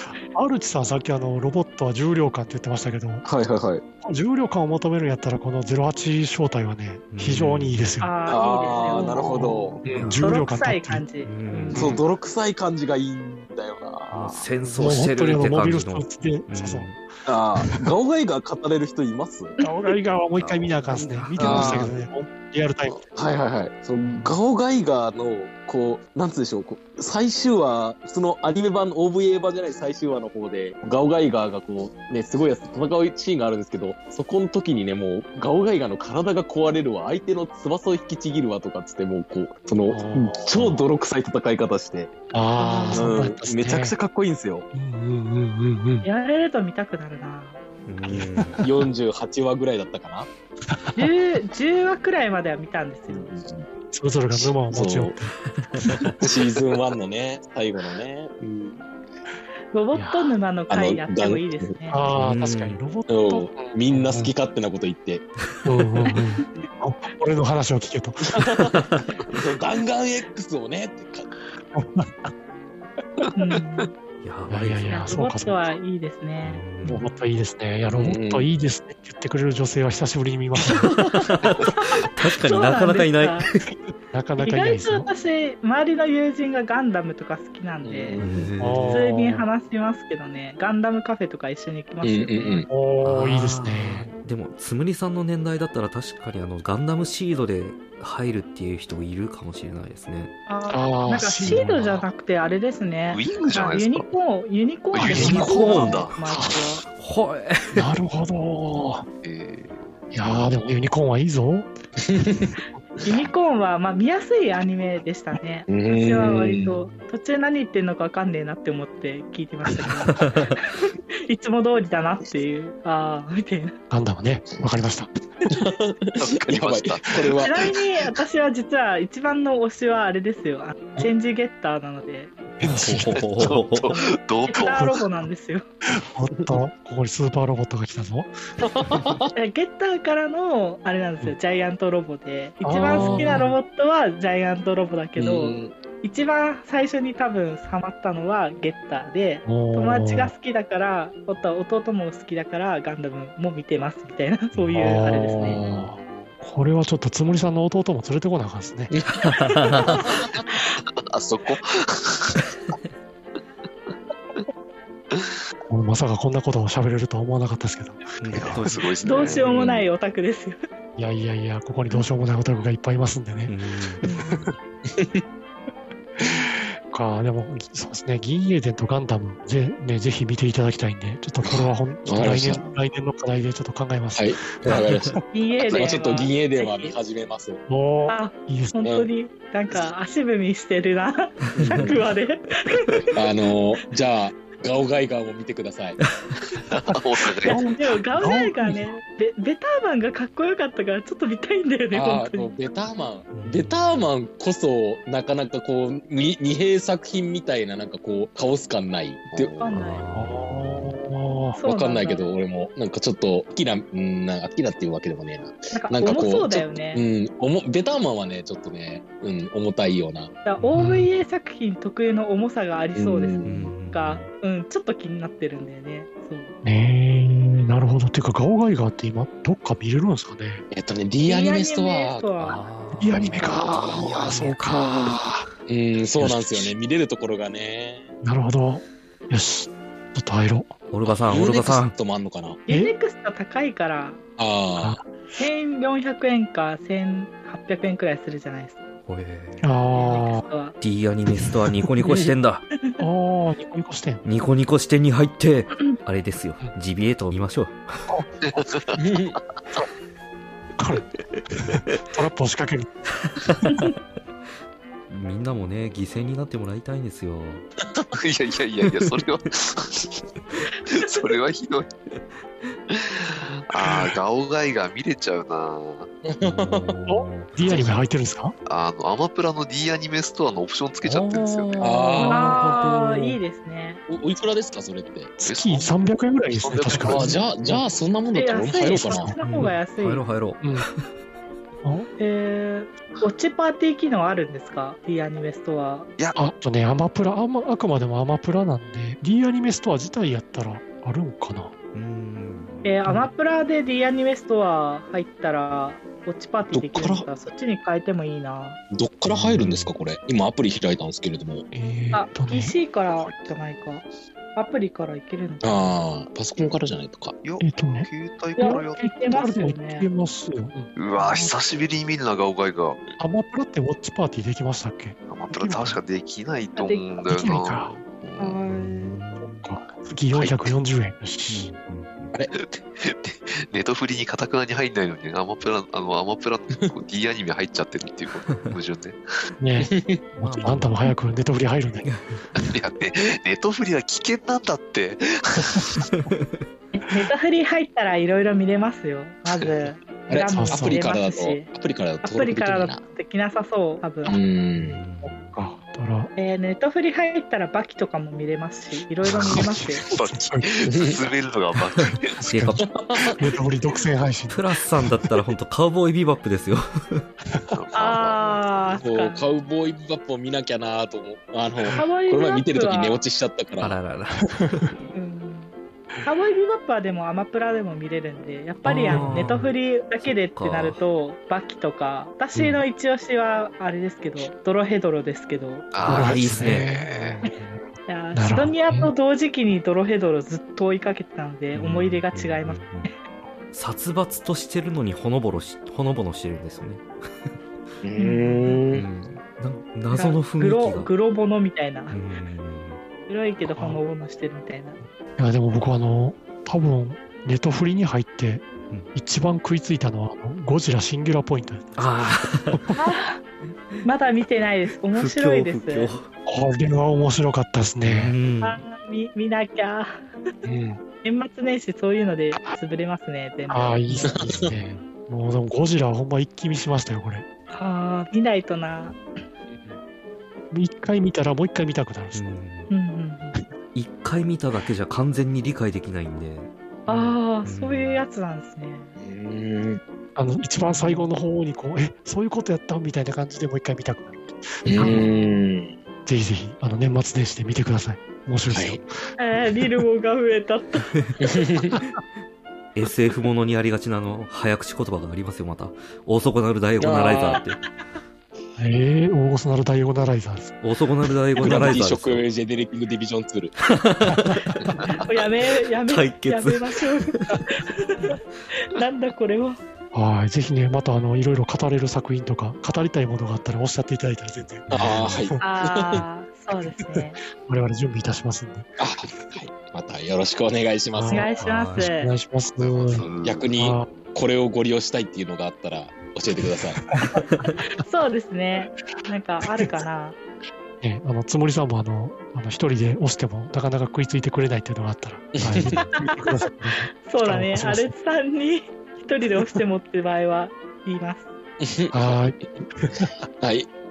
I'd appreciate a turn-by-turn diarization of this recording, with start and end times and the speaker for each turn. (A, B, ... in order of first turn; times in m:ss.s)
0:00.2-0:03.3 A
0:03.2-0:03.8 B
0:04.0-0:11.0 A
0:07.1-0:07.8 C
0:08.0-0:11.9 D
0:08.3-0:09.8 B
0:09.8-0:10.3 C
0:11.2-0:11.9 C
0:11.7-0:12.0 A
0:11.8-0:14.4 B
0:14.1-0:17.0 C
0:14.6-0:17.9 A
0:17.2-0:19.5 B
0:19.6-0:19.9 D
0:19.6-0:23.0 A
0:20.4-0:21.9 C
0:21.4-0:21.9 B
0:23.1-0:42.1 B
0:39.9-0:40.8 A
0:42.3-0:44.0 A
0:42.6-0:43.2 D
0:42.9-0:44.6 B
0:44.7-0:46.0 A
0:46.0-0:47.6 D
0:47.9-0:48.6 C
0:48.0-0:48.6 A
0:48.6-0:50.3 B
0:50.7-0:51.1 A
0:51.0-0:53.3 D
0:53.1-0:53.6 B
0:53.9-0:55.3 A
0:54.3-0:55.2 B
0:55.5-0:56.1 C
0:56.2-0:58.8 B
0:59.7-1:02.1 D
0:59.9-1:00.3 A
1:00.7-1:01.8 B
1:01.9-1:04.3 A
1:02.1-1:02.8 C
1:03.1-1:05.2 B
1:05.6-1:08.5 A
1:08.3-1:11.3 B
1:08.7-1:09.1 C
1:11.7-1:12.3 A
1:13.4-1:13.9 D
1:14.2-1:15.1 C
1:14.5-1:15.7 A
1:14.9-1:17.0 D
1:16.4-1:17.0 C
1:16.8-1:21.1 A
1:17.9-1:18.5 B
1:20.8-1:23.6 C
1:22.4-1:23.5 D
1:24.1-1:25.1 A
1:24.4-1:28.2 D
1:27.8-1:28.5 B
1:28.2-1:29.1 C
1:28.6-1:29.4 A
1:28.9-1:32.7 D
1:32.0-1:32.7 B
1:32.7-1:34.1 A
1:33.0-1:40.3 C
1:40.5-1:46.8 D
1:40.7-1:42.0 A
1:43.1-1:44.1 E
1:44.9-1:46.1 E
1:45.0-1:46.7 A
1:45.1-1:46.1 C
1:45.3-1:45.7 B
1:46.8-1:47.9 C
1:47.7-1:49.0 A
1:49.2-1:50.5 E
1:50.1-1:51.7 A
1:52.1-1:52.5 B
1:53.0-2:03.8 D
1:55.7-1:56.8 B
2:03.9-2:05.1 A
2:05.5-2:08.1 B
2:06.2-2:07.4 E
2:07.4-2:12.3 D
2:12.6-2:13.3 A
2:12.6-2:13.9 C
2:13.1-2:14.8 E
2:13.9-2:15.6 D
2:14.6-2:14.9 B
2:16.1-2:19.1 A
2:18.7-2:19.3 B
2:19.3-2:35.6 D
2:22.6-2:23.6 A
2:25.2-2:25.7 B
2:29.4-2:30.3 A
2:34.7-2:38.9 A
2:35.4-2:35.9 B
2:35.9-2:36.3 E
2:38.9-2:39.3 B
2:39.2-2:40.0 C
2:39.7-2:40.2 D
2:40.0-2:40.4 B
2:40.7-2:42.4 E
2:45.7-2:48.6 A
2:48.2-2:49.4 C
2:48.3-2:49.9 E
2:49.0-2:50.6 D
2:51.0-2:54.4 A
2:53.5-2:54.0 C
2:54.1-2:54.4 D
2:54.3-2:55.2 B
2:56.9-3:05.2 A
3:01.4-3:02.7 B
3:04.1-3:05.2 B
3:05.3-3:06.9 D
3:05.7-3:07.6 B
3:07.7-3:08.8 A
3:08.1-3:13.1 D
3:08.8-3:09.1 B
3:11.5-3:12.1 B
3:13.1-3:16.0 B
3:16.5-3:17.6 E
3:17.4-3:18.9 A
3:17.5-3:22.5 D
3:21.9-3:29.5 B
3:23.3-3:24.1 C
3:29.3-3:29.8 E
3:29.6-3:30.0 D
3:29.7-3:30.9 C
3:30.1-3:31.6 A
3:31.6-3:32.2 D
3:31.6-3:40.3 B
3:35.7-3:37.0 D
3:40.4-3:46.5 D
3:40.6-3:41.1 C
3:42.9-3:43.7 B
3:43.4-3:44.3 C
3:46.6-3:50.6 A
3:50.7-3:52.6 B
3:51.2-3:52.6 D
3:52.4-3:55.3 C
3:53.0-3:55.4 A
3:53.4-3:54.1 B
3:55.7-3:58.1 B
3:56.2-3:56.7 A
3:58.2-4:00.7 A
4:00.9-4:02.0 C
4:01.0-4:02.6 B
4:02.7-4:04.2 D
4:04.4-4:05.0 B
4:05.4-4:08.8 D
4:09.0-4:10.2 C
4:09.6-4:10.4 A
4:10.0-4:10.7 D
4:10.8-4:12.6 C
4:12.0-4:12.3 B
4:13.0-4:14.2 A
4:14.2-4:18.1 C
4:18.4-4:19.4 E
4:19.0-4:19.4 B
4:20.8-4:21.0 A
4:21.6-4:23.0 A
4:23.4-4:23.9 C
4:25.1-4:27.6 C
4:28.1-4:30.1 E
4:28.9-4:29.3 C
4:30.9-4:31.9 E
4:31.0-4:31.4 D
4:32.9-4:36.1 E
4:36.2-4:36.9 B
4:36.4-4:38.0 C
4:37.1-4:38.5 A
4:38.7-4:41.9 E
4:41.0-4:43.4 C
4:41.8-4:42.7 B
4:42.2-4:44.0 D
4:44.1-4:45.3 B
4:45.4-4:47.9 A
4:45.4-4:46.0 E
4:46.5-4:47.4 E
4:47.0-4:49.3 B
4:48.3-4:50.2 D
4:48.8-4:49.4 A
4:49.4-4:51.0 C
4:50.6-4:50.9 A
4:51.8-4:52.1 A
4:52.2-4:56.1 D
4:56.4-5:01.7 A
5:01.9-5:03.0 C
5:02.8-5:08.8 D
5:06.7-5:07.3 B
5:08.9-5:11.6 B
5:09.3-5:09.9 C
5:11.7-5:12.7 A
5:12.1-5:14.0 D
5:13.1-5:13.6 E
5:14.6-5:16.0 D
5:15.6-5:17.4 B
5:17.4-5:19.2 E
5:17.6-5:18.1 A
5:18.6-5:20.1 D
5:18.6-5:20.9 A
5:21.0-5:23.0 E
5:21.1-5:21.6 D
5:23.2-5:26.0 A
5:25.3-5:28.6 E
5:26.8-5:27.2 D
5:27.2-5:27.9 A
5:28.4-5:29.2 D
5:28.6-5:29.7 C
5:29.4-5:31.7 A
5:30.3-5:30.7 E
5:31.5-5:32.3 C
5:32.5-5:39.2 E
5:38.4-5:38.8 C
5:39.6-5:42.1 A
5:39.8-5:40.2 B
5:40.4-5:41.1 C
5:42.0-5:42.4 C
5:42.6-5:46.0 E
5:46.9-5:51.7 D
5:50.3-5:53.0 B
5:50.4-5:51.0 A
5:52.2-5:54.4 D
5:54.2-5:55.0 B
5:54.8-5:55.6 C
5:55.2-5:56.3 A
5:56.4-6:00.0 D
5:59.3-6:00.7 A
6:00.0-6:02.5 E
6:00.9-6:01.3 B
6:02.4-6:05.1 A
6:02.5-6:02.8 C
6:02.8-6:03.4 B
6:04.5-6:07.3 C
6:07.7-6:08.6 E
6:07.9-6:09.4 D
6:08.9-6:14.0 B
6:11.8-6:13.2 D
6:13.8-6:14.9 C
6:15.1-6:15.7 D
6:16.2-6:26.0 D
6:18.8-6:19.7 A
6:19.1-6:21.0 C
6:22.5-6:22.8 A
6:25.9-6:27.4 E
6:26.0-6:26.9 C
6:26.0-6:29.1 A
6:28.1-6:33.1 D
6:31.7-6:33.1 C
6:33.7-6:37.5 C
6:38.0-6:39.0 B
6:38.2-6:38.8 D
6:38.7-6:41.1 C
6:40.1-6:42.2 D
6:42.1-6:43.0 C
6:43.3-6:45.0 D
6:43.7-6:44.0 A
6:45.4-6:52.1 A
6:52.0-6:52.9 C
6:52.9-6:53.4 D
6:54.0-6:56.1 D
6:55.1-6:56.3 C
6:56.4-6:58.3 A
6:58.0-6:58.8 C
6:58.6-7:00.2 D
7:00.6-7:01.0 A
7:01.2-7:04.4 D
7:03.7-7:07.4 A
7:04.6-7:05.0 C
7:07.7-7:09.2 D
7:10.7-7:12.4 A
7:12.3-7:12.9 C
7:12.9-7:13.6 D
7:13.9-7:18.2 C
7:17.1-7:19.1 D
7:19.2-7:20.0 B
7:20.4-7:25.4 A
7:20.8-7:21.3 D
7:24.9-7:25.9 B
7:25.0-7:25.5 C
7:26.2-7:29.2 A
7:28.7-7:29.0 B
7:29.4-7:31.1 D
7:31.4-7:32.0 B
7:32.9-7:37.8 C
7:37.0-7:37.6 B
7:38.8-7:40.7 A
7:40.8-7:42.4 C
7:41.6-7:43.7 B
7:43.9-7:44.9 C
7:45.1-7:49.8 D
7:46.0-7:47.6 C
7:50.1-7:55.6 A
7:54.9-7:55.4 C
7:54.9-7:56.2 B
7:55.6-7:57.4 D
7:57.6-7:59.6 A
7:59.0-8:01.5 B
8:01.1-8:04.1 A
8:01.3-8:02.3 D
8:01.6-8:02.1 C
8:02.8-8:03.7 E
8:03.4-8:07.0 B
8:07.1-8:07.4 A
8:07.9-8:10.4 D
8:11.0-8:18.1 A
8:15.5-8:15.9 B
8:16.2-8:16.5 D
8:17.2-8:21.5 D
8:21.8-8:22.6 B
8:22.1-8:23.3 A
8:23.6-8:23.9 B